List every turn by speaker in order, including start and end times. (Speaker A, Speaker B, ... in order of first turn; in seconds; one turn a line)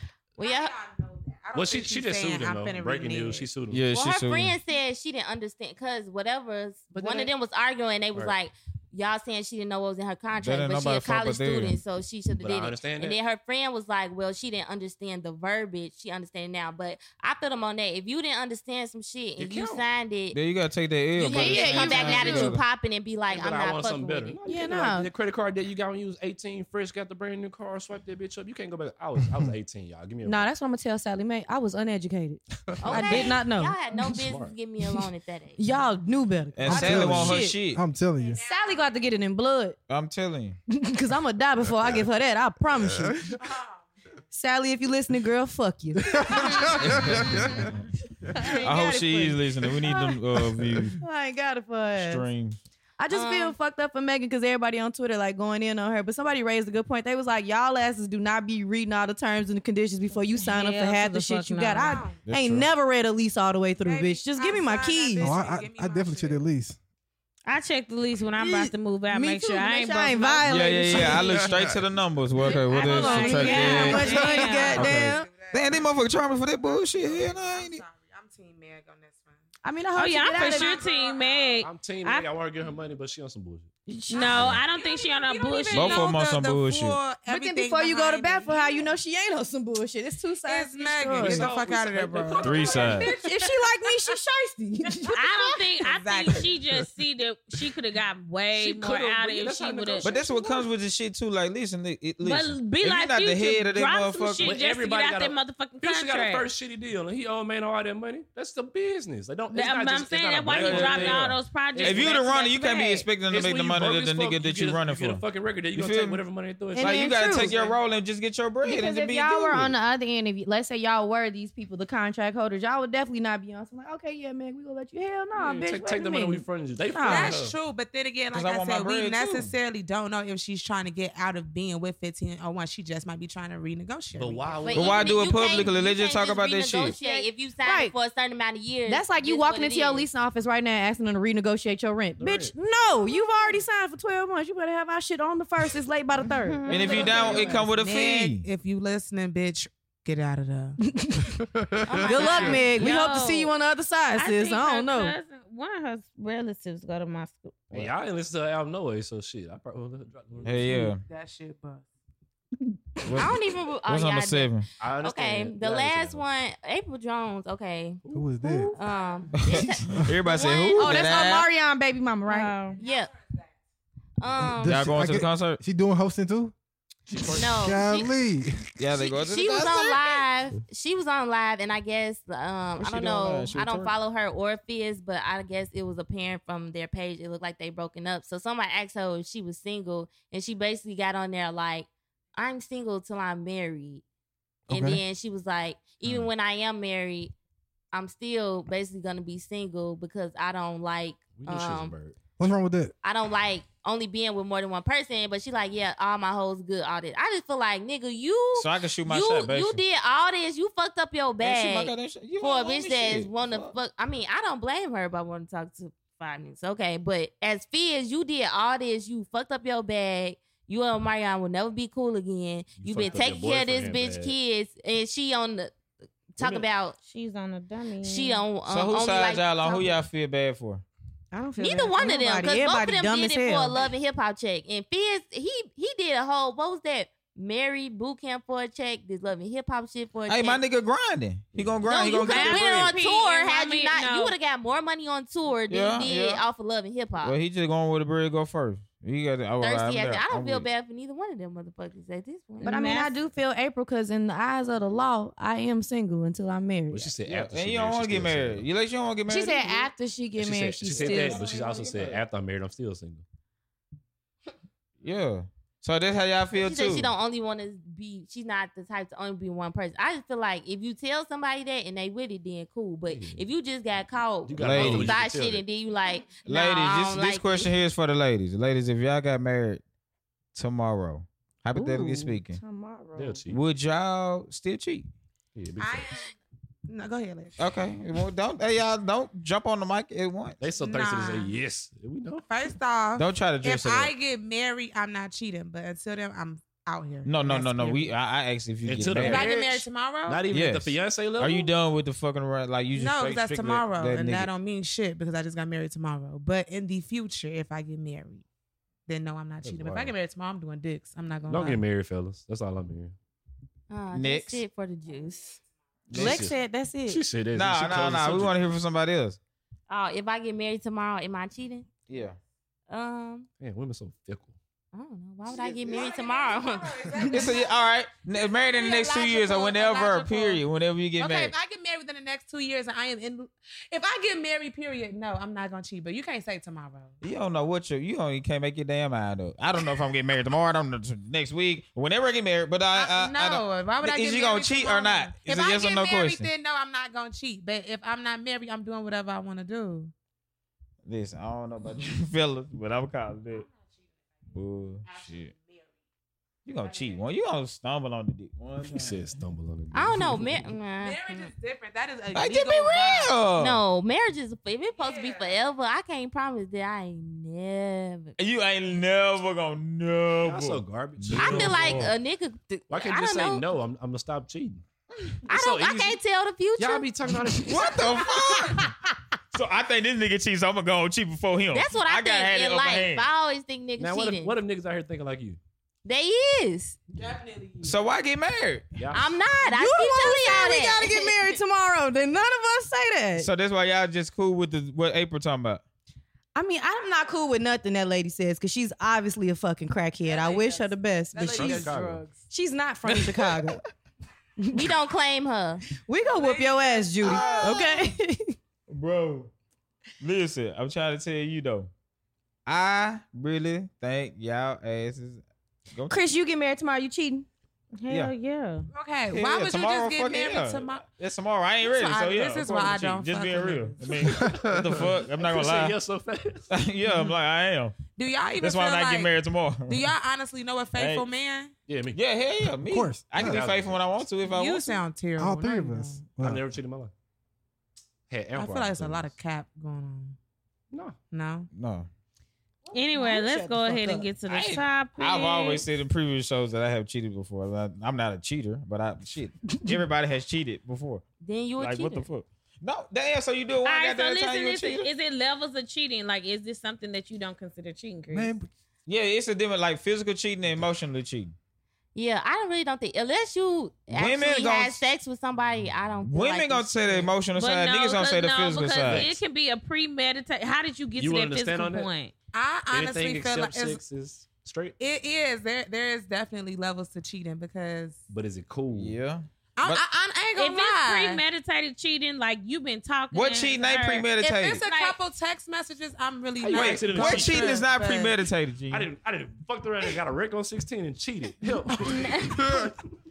Speaker A: 0.4-0.8
Speaker B: 0.4-3.6
Speaker C: 1.5-3.8
Speaker D: 3.7-4.6
Speaker A: 3.9-20.4
Speaker C: 6.9-7.3
Speaker D: 10.4-11.8
Speaker C: 12.4-13.2
Speaker C: 19.4-19.8
Speaker D: 20.3-22.6
Speaker A: 21.1-24.4
Speaker E: 21.2-22.6
Speaker C: 23.3-30.5
Speaker E: 24.4-25.1
Speaker E: 30.2-33.8
Speaker A: 32.8-35.6
Speaker C: 34.1-34.5
Speaker E: 35.6-37.6
Speaker D: 36.5-37.8
Speaker F: 36.6-38.4
Speaker B: 38.2-39.1
Speaker E: 38.4-39.8
Speaker D: 39.9-40.6
Speaker E: 40.7-43.3
Speaker E: 44.3-46.8
Speaker F: 46.1-47.6
Speaker B: 46.3-46.8
Speaker D: 46.8-47.9
Speaker E: 48.4-50.2
Speaker B: 48.4-48.7
Speaker D: 48.5-51.0
Speaker E: 51.0-52.3
Speaker D: 52.0-52.6
Speaker E: 53.0-65.3
Speaker A: 53.1-53.6
Speaker G: 60.4-62.0
Speaker B: 61.8-62.3
Speaker D: 62.2-62.7
Speaker B: 63.8-66.5
Speaker F: 65.2-66.8
Speaker G: 67.5-71.4
Speaker E: 68.4-71.6
Speaker D: 70.4-77.8
Speaker E: 72.4-75.3
Speaker G: 72.7-74.9
Speaker B: 74.0-79.4
Speaker E: 79.6-80.8
Speaker G: 80.0-82.3
Speaker B: 80.3-81.6
Speaker C: 81.6-83.7
Speaker E: 83.9-84.5
Speaker G: 84.1-86.2
Speaker B: 84.2-88.9
Speaker D: 85.7-87.0
Speaker E: 87.2-91.5
Speaker B: 90.5-94.2
Speaker C: 91.2-93.1
Speaker D: 92.4-93.2
Speaker E: 93.1-95.3
Speaker B: 94.9-96.8
Speaker G: 95.1-100.1
Speaker C: 98.5-100.2
Speaker D: 100.0-104.6
Speaker G: 102.2-106.5
Speaker C: 104.4-112.2
Speaker G: 109.5-113.1
Speaker D: 110.5-116.2
Speaker C: 113.3-117.8
Speaker E: 116.7-117.6
Speaker D: 116.8-119.7
Speaker E: 118.6-127.4
Speaker C: 125.4-127.6
Speaker B: 127.0-134.8
Speaker D: 128.3-129.5
Speaker C: 134.2-135.7
Speaker A: 134.6-140.1
Speaker D: 134.8-137.0
Speaker E: 137.0-137.9
Speaker E: 138.9-147.6
Speaker C: 142.2-142.6
Speaker A: 146.6-147.3
Speaker B: 146.7-150.8
Speaker G: 146.7-147.1
Speaker D: 146.7-148.4
Speaker E: 150.8-151.4
Speaker A: 151.8-152.8
Speaker B: 152.0-152.8
Speaker E: 152.0-155.2
Speaker G: 152.1-153.5
Speaker G: 154.2-157.6
Speaker C: 157.7-160.8
Speaker D: 160.4-161.0
Speaker B: 160.7-161.9
Speaker D: 163.1-163.3
Speaker A: 163.2-168.0
Speaker D: 163.9-164.7
Speaker C: 164.8-166.2
Speaker C: 168.0-168.4
Speaker F: 168.1-168.7
Speaker E: 168.4-168.7
Speaker A: 168.7-171.3
Speaker B: 168.8-169.3
Speaker D: 169.4-171.5
Speaker F: 169.5-170.1
Speaker E: 170.8-172.6
Speaker G: 172.3-172.8
Speaker A: 172.8-173.1
Speaker B: 172.8-173.4
Speaker A: 174.2-174.8
Speaker F: 174.3-176.5
Speaker D: 174.6-175.6
Speaker C: 177.1-177.8
Speaker A: 177.3-178.1
Speaker F: 177.4-178.6
Speaker D: 178.8-180.2
Speaker A: 178.9-194.0
Speaker D: 182.8-183.9
Speaker F: 194.7-195.0
Speaker A: 194.7-197.3
Speaker A: 197.9-201.9
Speaker C: 201.3-202.2
Speaker F: 202.4-202.9
Speaker A: 203.0-225.8
Speaker D: 208.6-209.8
Speaker D: 211.4-213.8
Speaker C: 222.8-224.3
Speaker B: 223.0-223.3
Speaker A: 226.3-227.0
Speaker C: 226.4-226.7
Speaker G: 227.1-228.4
Speaker A: 228.0-229.9
Speaker D: 228.7-230.8
Speaker E: 231.3-233.8
Speaker A: 231.6-240.6
Speaker D: 240.3-242.9
Speaker A: 241.8-247.4
Speaker G: 242.2-244.3
Speaker D: 245.7-246.4
Speaker D: 247.2-250.7
Speaker A: 249.6-252.8
Speaker G: 252.6-253.2
Speaker E: 252.6-257.1
Speaker C: 256.9-258.7
Speaker D: 257.2-259.9
Speaker E: 259.3-262.1
Speaker C: 260.4-263.2
Speaker B: 261.0-261.4
Speaker D: 265.0-267.1
Speaker A: 266.5-277.7
Speaker C: 273.1-273.4
Speaker C: 274.5-275.6
Speaker D: 274.6-275.2
Speaker D: 276.4-279.8
Speaker D: 280.6-282.6
Speaker E: 281.7-283.4
Speaker C: 283.1-283.6
Speaker D: 283.5-285.1
Speaker C: 285.6-286.1
Speaker B: 285.8-286.3
Speaker B: 286.9-287.6
Speaker D: 287.6-290.6
Speaker C: 290.6-292.5
Speaker B: 290.7-291.6
Speaker B: 292.5-298.1
Speaker D: 293.2-294.1
Speaker D: 297.2-299.5
Speaker C: 298.9-301.7
Speaker B: 299.2-300.5
Speaker D: 300.5-304.5
Speaker B: 302.9-308.4
Speaker C: 303.1-303.9
Speaker B: 309.1-311.8
Speaker C: 309.6-310.1
Speaker C: 311.5-313.1
Speaker A: 313.9-315.6
Speaker D: 314.1-314.6
Speaker C: 316.1-318.6
Speaker D: 316.1-316.5
Speaker E: 316.1-317.2
Speaker D: 317.5-319.4
Speaker A: 319.9-321.9
Speaker D: 322.1-322.4
Speaker A: 322.9-323.5
Speaker C: 323.6-324.6
Speaker A: 324.9-327.3
Speaker B: 325.5-330.6
Speaker D: 327.3-331.5
Speaker B: 331.2-337.2
Speaker D: 337.2-346.5
Speaker B: 342.9-350.1
Speaker D: 351.1-353.7
Speaker D: 354.6-355.5
Speaker B: 355.1-355.9
Speaker D: 356.7-359.3
Speaker B: 356.8-357.2
Speaker C: 358.8-360.8
Speaker A: 359.9-361.2
Speaker B: 361.0-363.4
Speaker D: 362.3-363.8
Speaker A: 363.6-368.4
Speaker B: 364.9-365.6
Speaker D: 368.4-371.8
Speaker C: 370.4-372.2
Speaker A: 371.4-373.7
Speaker C: 372.9-374.8
Speaker C: 375.4-376.2
Speaker A: 375.4-377.1
Speaker C: 376.8-378.0
Speaker D: 377.7-378.9
Speaker B: 377.9-378.9
Speaker D: 379.5-383.2
Speaker A: 381.7-384.6
Speaker C: 384.0-385.6
Speaker A: 386.1-387.0
Speaker B: 387.1-388.0
Speaker D: 387.8-388.9
Speaker C: 389.0-389.3
Speaker A: 389.1-391.6
Speaker E: 389.6-393.5
Speaker D: 393.4-395.8
Speaker E: 396.6-401.9
Speaker B: 400.2-402.5
Speaker C: 401.5-402.3
Speaker E: 402.5-403.8
Speaker E: 404.6-404.9
Speaker A: 404.7-405.9
Speaker E: 405.9-408.6
Speaker B: 406.3-407.9
Speaker D: 407.2-408.0
Speaker D: 408.9-409.5
Speaker D: 410.2-411.9
Speaker D: 412.7-415.4
Speaker E: 416.1-417.5
Speaker G: 418.0-418.9
Speaker B: 418.9-421.1
Speaker D: 419.3-426.0
Speaker B: 421.8-424.2
Speaker C: 424.3-426.7
Speaker D: 426.7-428.0
Speaker B: 428.1-429.4
Speaker D: 428.6-430.1
Speaker B: 429.9-431.7
Speaker D: 431.0-431.3
Speaker C: 431.9-432.2
Speaker D: 432.1-435.1
Speaker F: 432.9-433.6
Speaker C: 433.4-434.1
Speaker B: 434.4-436.4
Speaker F: 435.4-436.6
Speaker C: 436.4-437.1
Speaker C: 438.3-439.4
Speaker B: 438.6-440.4
Speaker C: 440.9-441.2
Speaker B: 441.3-441.7
Speaker D: 441.7-442.1
Speaker G: 442.9-445.9
Speaker E: 443.1-444.3
Speaker D: 444.5-451.2
Speaker A: 451.4-452.3
Speaker D: 451.8-455.1
Speaker G: 453.8-458.5
Speaker F: 458.3-458.7
Speaker D: 459.1-461.5
Speaker A: 462.1-467.3
Speaker D: 464.1-465.0
Speaker D: 466.3-469.4
Speaker G: 467.6-472.3
Speaker C: 469.0-469.4
Speaker C: 471.2-472.1
Speaker B: 472.5-474.0
Speaker C: 472.9-475.0
Speaker B: 475.0-478.2
Speaker C: 478.3-479.1
Speaker D: 478.9-480.0
Speaker B: 479.8-481.4
Speaker G: 480.6-484.3
Speaker D: 483.3-484.9
Speaker B: 484.4-488.5
Speaker G: 484.9-485.2
Speaker C: 486.6-487.9
Speaker D: 486.7-489.1
Speaker C: 488.9-493.0